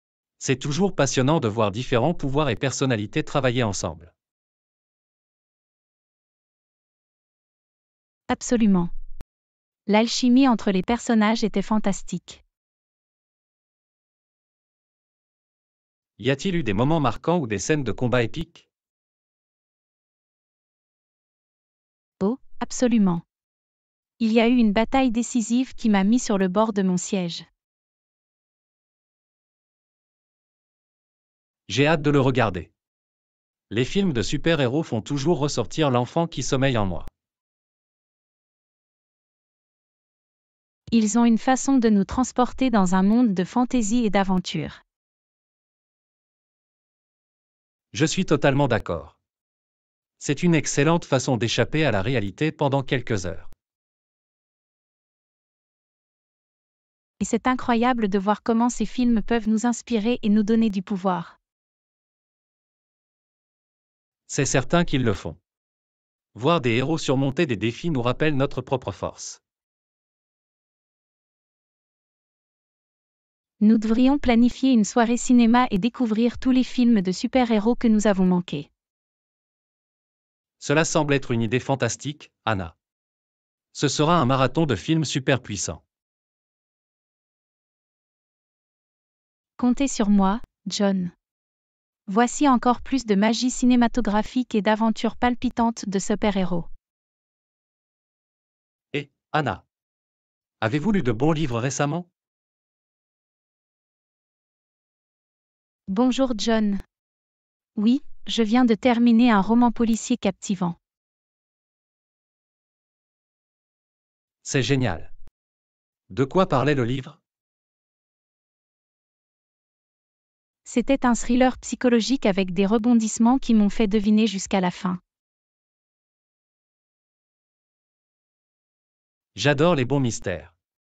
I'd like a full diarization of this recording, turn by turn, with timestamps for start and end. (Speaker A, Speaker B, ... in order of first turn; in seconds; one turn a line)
Speaker A: 0.4-4.1
Speaker B: 8.3-8.9
Speaker B: 9.9-12.4
Speaker A: 16.2-18.7
Speaker B: 22.2-23.2
Speaker B: 24.2-27.4
Speaker A: 31.7-32.7
Speaker A: 33.7-37.1
Speaker B: 40.9-44.8
Speaker A: 47.9-49.1
Speaker A: 50.2-53.5
Speaker B: 57.2-61.4
Speaker A: 64.3-65.4
Speaker A: 66.3-69.4
Speaker B: 73.6-78.7
Speaker A: 80.6-82.7
Speaker A: 83.7-85.8
Speaker B: 89.6-91.1
Speaker B: 92.1-96.7
Speaker A: 98.9-99.6
Speaker A: 100.6-102.1
Speaker B: 105.9-106.8
Speaker B: 107.7-110.8
Speaker A: 114.4-115.1
Speaker A: 116.1-117.2
Speaker B: 120.6-125.0
Speaker A: 129.3-130.5